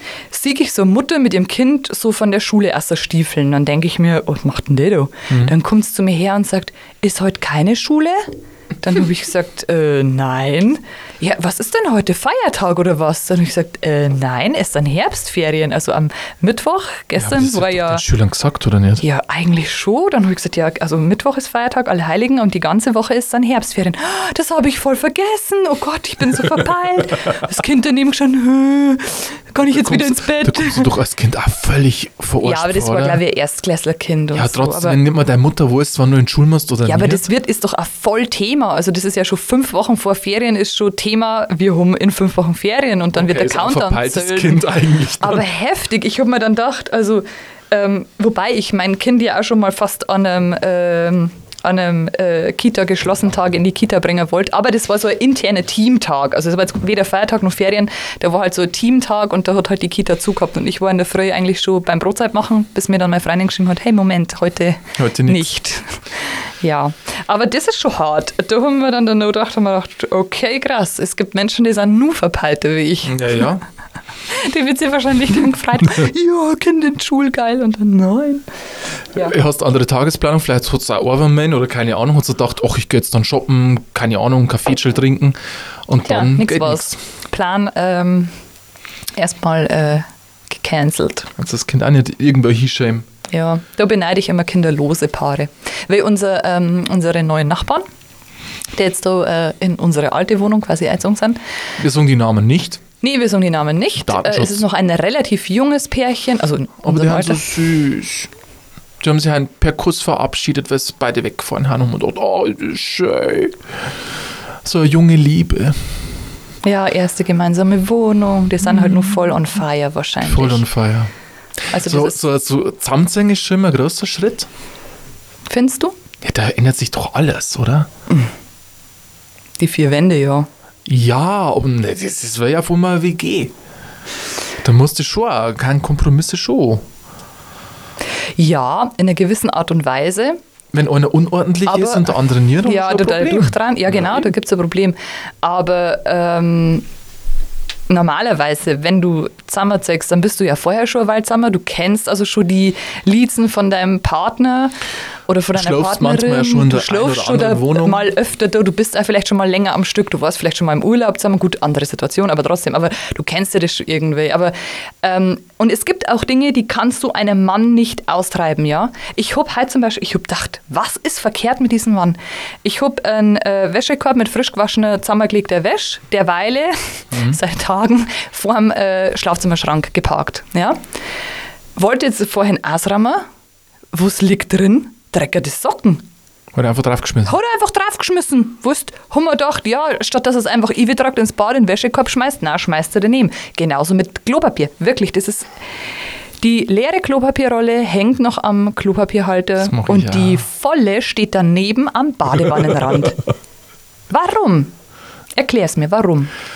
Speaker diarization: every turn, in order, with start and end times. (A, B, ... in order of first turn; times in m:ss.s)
0:00.3-0:08.3 A
0:08.8-0:18.0 A
0:17.2-0:19.0 B
0:19.0-0:30.9 A
0:29.6-0:33.2 B
0:32.4-0:35.0 A
0:34.3-0:37.2 B
0:36.9-1:13.5 A
0:43.1-0:45.5 B
1:05.0-1:05.5 B
1:13.0-1:13.6 B
1:14.3-1:18.4 A
1:19.2-1:27.0 B
1:26.0-1:28.3 A
1:29.2-1:31.3 A
1:31.4-1:33.1 B
1:33.3-1:37.8 A
1:38.8-1:41.4 A
1:41.8-1:42.8 B
1:43.0-1:47.5 A
1:44.0-1:44.6 B
1:46.8-1:48.3 B
1:49.0-1:53.5 B
1:54.6-1:55.8 B
1:56.6-2:00.6 A
1:58.6-1:59.2 B
2:00.2-2:01.1 B
2:01.7-2:04.5 B
2:01.7-2:02.2 A
2:05.5-2:06.0 A
2:06.2-2:07.9 B
2:09.6-2:10.5 A
2:10.9-2:13.5 B
2:14.6-2:16.8 B
2:18.4-2:20.4 A
2:20.7-2:24.0 B
2:21.7-2:26.8 A
2:27.9-2:34.8 A
2:35.3-3:00.8 A
2:35.5-2:38.1 B
2:57.1-2:57.4 B
3:01.8-3:03.2 A
3:03.9-3:06.0 A
3:06.6-3:07.4 B
3:07.3-3:15.5 A
3:16.4-3:23.2 A
3:19.6-3:20.5 B
3:24.1-3:24.7 A
3:25.4-3:26.3 A